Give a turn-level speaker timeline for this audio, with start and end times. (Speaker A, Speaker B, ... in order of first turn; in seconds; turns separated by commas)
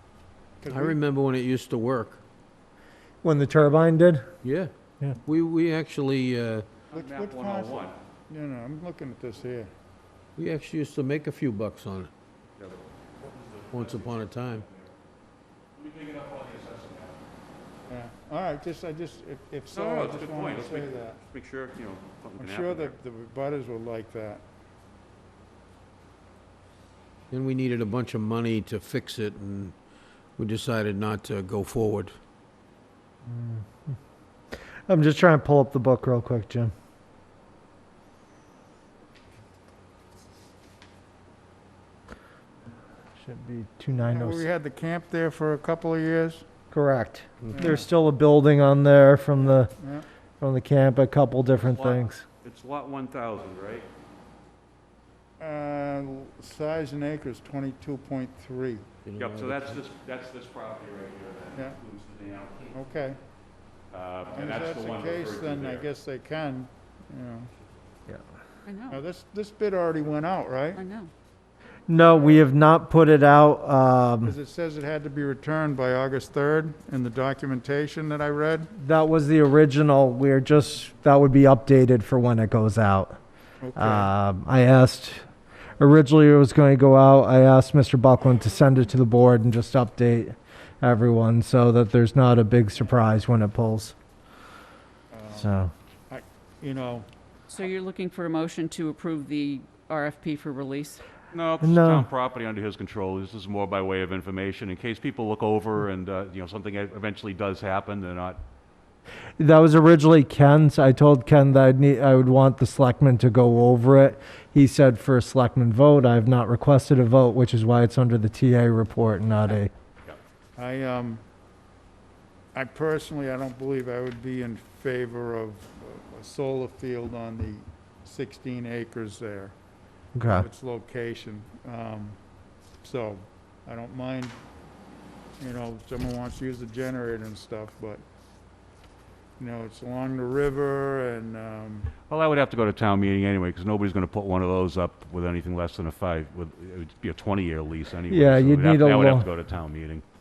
Speaker A: 0.6-1.0, Speaker B: 0.7-2.2, Speaker C: 3.2-4.3, Speaker B: 4.4-4.7, Speaker B: 5.2-6.7, Speaker D: 6.9-8.0, Speaker A: 6.9-9.7, Speaker B: 10.3-12.1, Speaker D: 12.6-14.8, Speaker B: 13.7-14.7, Speaker D: 15.8-17.1, Speaker A: 17.9-21.2, Speaker D: 19.7-22.9, Speaker A: 22.4-24.4, Speaker B: 27.3-29.7, Speaker B: 30.4-32.1, Speaker C: 33.3-33.7, Speaker C: 34.9-36.7, Speaker C: 43.2-44.4, Speaker A: 44.0-46.5, Speaker C: 46.7-49.7, Speaker A: 47.5-47.9, Speaker A: 49.8-50.0, Speaker C: 50.4-52.2, Speaker D: 51.5-53.9, Speaker A: 55.4-58.8, Speaker B: 59.0-59.8, Speaker D: 59.2-62.8, Speaker A: 62.7-63.2, Speaker D: 63.9-65.9, Speaker A: 64.3-67.5, Speaker E: 68.6-69.0, Speaker A: 68.9-70.8, Speaker E: 70.7-71.1, Speaker C: 71.9-74.3, Speaker A: 74.2-78.7, Speaker C: 78.8-83.2, Speaker A: 83.6-84.1, Speaker C: 83.8-85.2, Speaker C: 85.8-93.9, Speaker A: 95.1-95.5, Speaker C: 95.3-95.7, Speaker A: 96.1-97.1, Speaker E: 97.5-101.0, Speaker D: 101.3-108.4, Speaker C: 101.6-102.1, Speaker C: 109.4-119.7, Speaker A: 120.6-121.2, Speaker A: 122.5-129.5, Speaker C: 130.2-130.5, Speaker A: 130.3-132.2, Speaker A: 132.8-134.4, Speaker A: 135.4-138.0, Speaker A: 139.4-141.9, Speaker D: 142.1-150.0, Speaker C: 148.1-149.3